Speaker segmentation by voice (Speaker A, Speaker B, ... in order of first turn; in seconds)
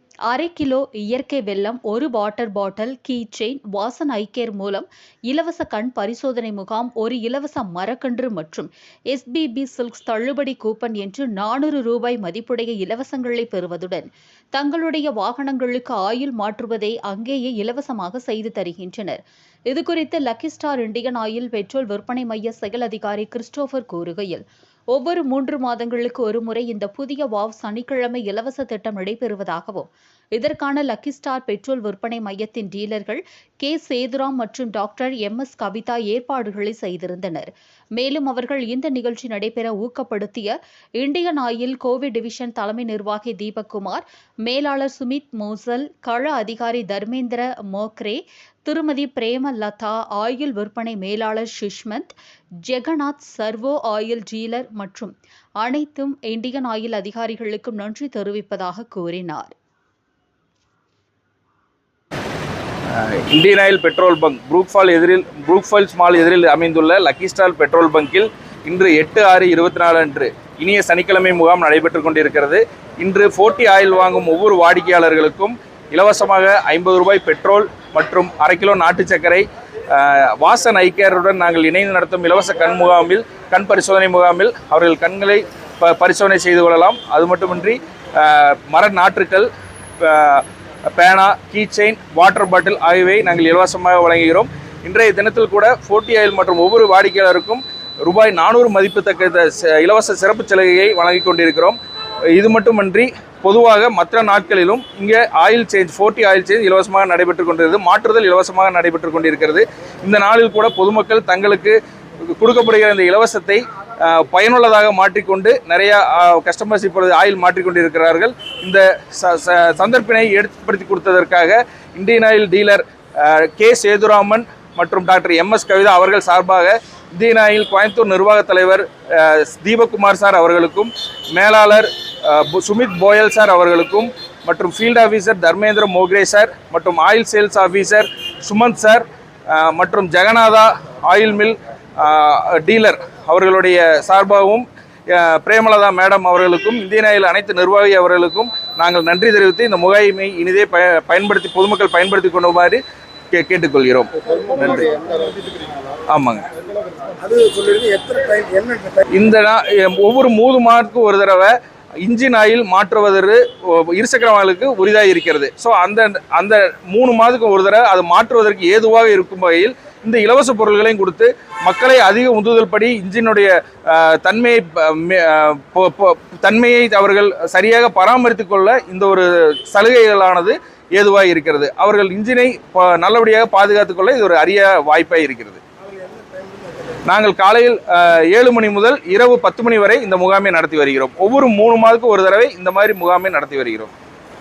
Speaker A: 0.3-52.1, 52.6-59.5
Speaker B: 62.9-101.8, 102.3-152.8, 153.3-154.9, 156.1-156.5, 159.1-161.5, 162.0-185.6, 187.1-193.9
Speaker C: 154.9-155.3, 157.2-159.0, 186.2-186.7